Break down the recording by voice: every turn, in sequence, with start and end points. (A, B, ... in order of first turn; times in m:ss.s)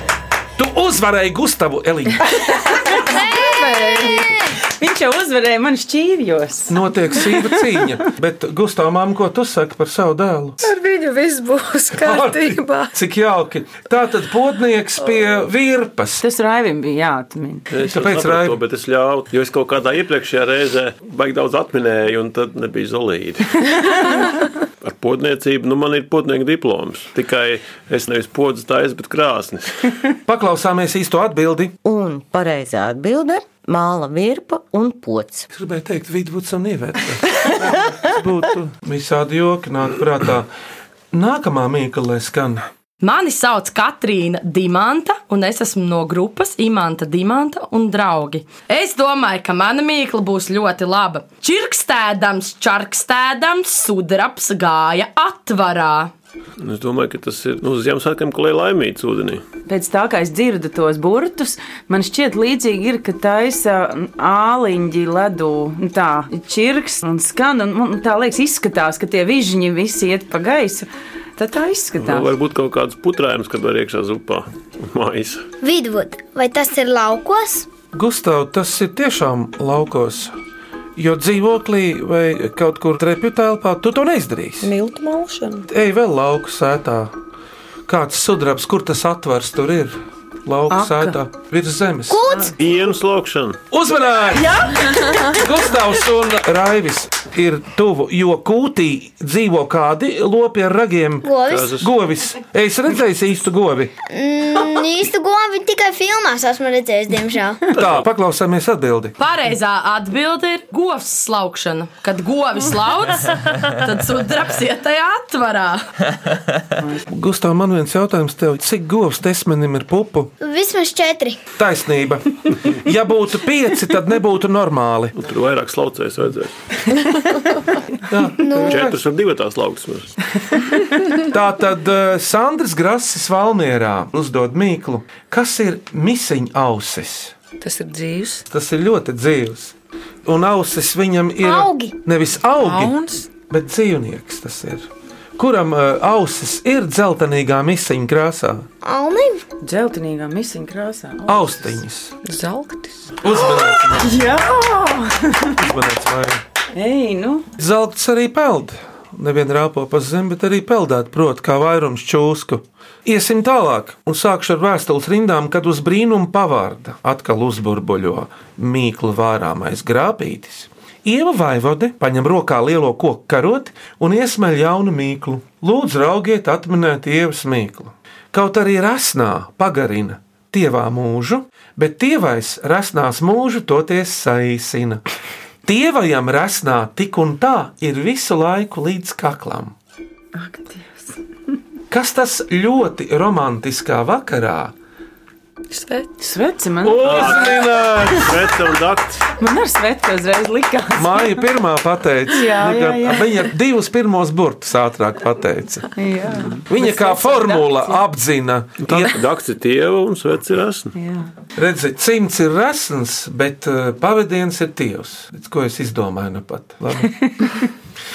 0:00.6-0:02.3 A
0:02.3-0:07.5 B
0:03.1-0:04.4 C
0:06.7-0:10.6 A
0:10.6-0:12.9 D
0:11.9-0:16.2 A
0:16.2-0:17.6 B
0:17.7-0:23.7 E
0:17.8-0:18.6 A
0:24.8-0:29.9 E
0:30.2-0:31.7 A
0:31.8-0:35.5 F
0:35.5-0:40.5 A
0:41.1-0:42.6 A
0:43.0-0:56.1 G
0:56.6-0:59.4 E
0:59.7-1:12.3 B
1:12.0-1:15.4 E
1:15.6-1:17.7 C
1:17.9-1:20.3 A
1:21.0-1:24.7 A
1:24.6-1:25.6 D
1:25.7-1:27.1 A
1:27.9-1:32.2 A
1:32.1-1:32.5 C
1:32.6-1:33.6 E
1:33.7-1:41.3 A
1:41.2-1:41.8 C
1:41.4-1:41.9 E
1:41.8-1:43.9 A
1:44.1-1:47.7 C
1:47.7-1:49.2 A
1:49.2-1:55.9 G
1:57.1-2:00.3 A
2:00.4-2:01.4 C
2:01.6-2:05.1 A
2:05.2-2:06.5 E
2:08.1-2:09.0 A
2:08.4-2:08.8 C
2:08.6-2:10.1 E
2:11.3-2:17.3 A
2:17.6-2:18.4 D
2:18.5-2:19.7 A
2:20.2-2:28.6 A
2:21.4-2:21.9 C
2:22.6-2:23.3 D
2:28.8-2:29.4 C
2:29.6-2:31.8 B
2:31.2-2:32.1 A
2:32.2-2:33.1 D
2:33.2-2:34.2 A
2:34.0-2:35.5 B
2:35.6-2:36.4 A
2:36.7-2:37.5 B
2:37.6-3:05.0 A
3:05.6-3:09.7 A
3:10.4-3:10.8 B
3:11.9-3:14.7 A
3:15.7-3:16.3 D
3:16.2-3:18.2 B
3:16.8-3:19.2 E
3:17.0-3:18.3 A
3:19.4-3:21.4 B
3:20.9-3:25.8 A
3:22.3-3:23.4 B
3:26.0-3:28.0 B
3:26.7-3:29.2 A
3:28.8-3:30.9 E
3:30.9-3:31.3 B
3:31.6-3:37.7 A
3:37.2-3:37.5 B